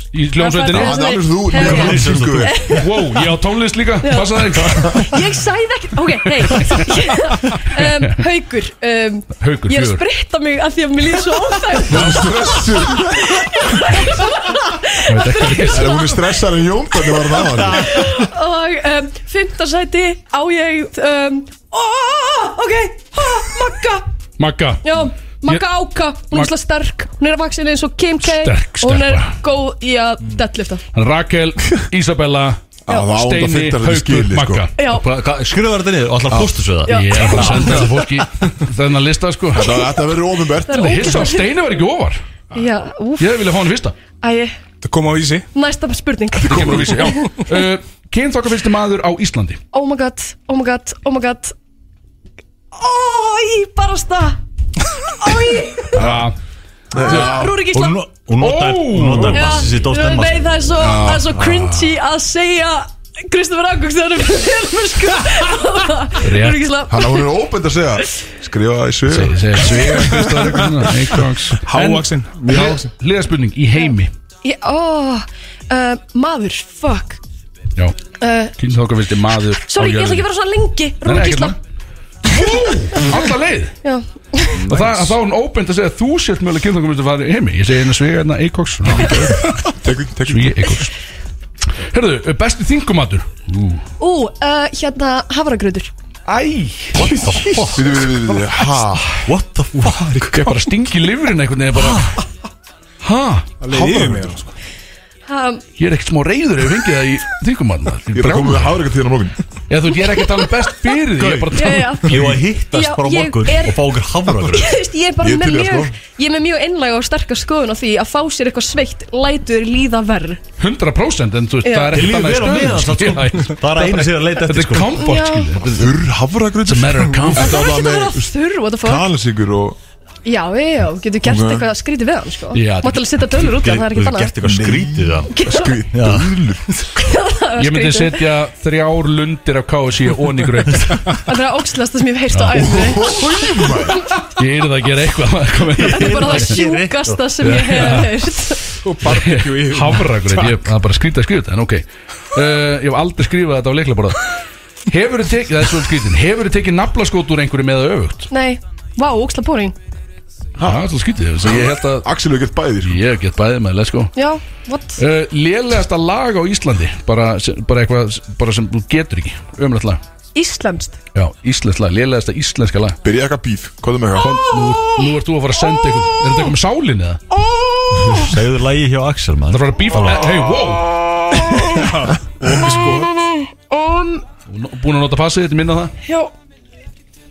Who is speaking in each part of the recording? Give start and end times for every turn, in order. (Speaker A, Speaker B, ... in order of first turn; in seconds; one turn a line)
Speaker A: 0.1-1.0
Speaker B: 0.3-3.2
Speaker C: 0.7-2.6
Speaker D: 1.5-2.5
Speaker A: 2.8-5.2
Speaker B: 4.0-16.3
Speaker A: 6.4-7.0
Speaker A: 7.7-8.2
Speaker A: 9.4-10.0
Speaker C: 11.9-13.4
Speaker A: 11.9-12.3
Speaker A: 15.1-16.0
Speaker C: 15.6-18.1
Speaker B: 17.0-24.1
Speaker A: 24.4-25.6
Speaker B: 24.8-30.8
Speaker A: 28.2-29.3
Speaker A: 30.9-34.8
Speaker C: 32.9-34.6
Speaker B: 34.8-35.1
Speaker D: 34.9-38.1
Speaker C: 36.3-36.6
Speaker B: 36.8-37.8
Speaker A: 36.9-39.8
Speaker C: 39.5-41.0
Speaker B: 40.7-41.5
Speaker A: 40.7-42.2
Speaker B: 42.5-43.3
Speaker A: 43.2-44.0
Speaker B: 44.2-44.5
Speaker E: 44.8-45.5
Speaker B: 45.5-47.4
Speaker A: 46.5-49.6
Speaker B: 49.7-51.5
Speaker B: 52.7-54.4
Speaker B: 55.1-56.2
Speaker A: 56.0-56.4
Speaker C: 56.9-57.6
Speaker B: 57.0-58.0
Speaker A: 57.0-57.4
Speaker D: 57.7-60.6
Speaker A: 58.4-59.7
Speaker B: 59.3-67.3
Speaker A: 60.8-61.7
Speaker A: 66.2-66.7
Speaker C: 66.9-70.4
Speaker A: 69.1-74.1
Speaker E: 70.4-70.6
Speaker E: 71.7-72.9
Speaker B: 74.4-77.2
Speaker B: 78.2-78.5
Speaker A: 78.6-80.3
Speaker B: 79.7-81.5
Speaker A: 81.0-81.6
Speaker A: 82.2-83.7
Speaker B: 82.3-83.0
Speaker B: 83.8-84.7
Speaker A: 84.7-89.6
Speaker C: 84.7-85.1
Speaker B: 89.0-89.3
Speaker C: 89.8-90.7
Speaker A: 90.3-90.9
Speaker A: 91.8-93.8
Speaker B: 94.0-95.9
Speaker A: 96.2-97.3
Speaker D: 97.0-97.9
Speaker C: 97.7-99.1
Speaker D: 99.2-100.4
Speaker A: 100.2-102.2
Speaker D: 101.8-102.2
Speaker A: 103.0-103.5
Speaker E: 103.6-104.5
Speaker C: 103.7-104.4
Speaker B: 105.3-105.6
Speaker A: 105.8-108.8
Speaker C: 108.1-109.4
Speaker A: 109.7-112.1
Speaker D: 111.2-111.5
Speaker B: 111.5-113.8
Speaker D: 112.0-114.8
Speaker B: 114.4-120.4
Speaker C: 115.2-116.0
Speaker A: 120.6-126.0
Speaker B: 121.6-122.1
Speaker D: 121.9-125.0
Speaker B: 124.9-125.6
Speaker C: 125.6-128.3
Speaker A: 126.6-127.6
Speaker B: 127.3-129.1
Speaker C: 128.8-129.8
Speaker B: 130.2-134.3
Speaker C: 131.2-131.7
Speaker A: 132.5-133.4
Speaker D: 133.5-135.3
Speaker C: 134.4-136.8
Speaker B: 135.3-135.9
Speaker D: 135.9-136.3
Speaker B: 136.9-138.3
Speaker A: 137.6-141.2
Speaker B: 141.2-144.3
Speaker A: 142.3-143.0
Speaker C: 142.5-144.0
Speaker A: 144.3-146.6
Speaker D: 145.8-147.2
Speaker B: 145.8-148.6
Speaker A: 147.4-148.2
Speaker E: 148.8-150.7
Speaker A: 149.0-154.3
Speaker A: 154.9-158.3
Speaker B: 158.3-159.8
Speaker C: 160.6-160.8
Speaker A: 160.6-162.1
Speaker C: 161.4-163.0
Speaker A: 162.8-164.1
Speaker B: 164.2-165.0
Speaker A: 165.0-170.0
Speaker B: 170.3-171.0
Speaker A: 171.1-173.0
Speaker C: 173.0-174.5
Speaker A: 174.2-177.2
Speaker B: 174.3-176.4
Speaker B: 177.3-178.4
Speaker D: 178.1-180.3
Speaker A: 179.5-180.9
Speaker B: 181.4-181.7
Speaker E: 181.7-183.1
Speaker B: 182.5-184.2
Speaker A: 184.5-185.9
Speaker B: 186.0-186.3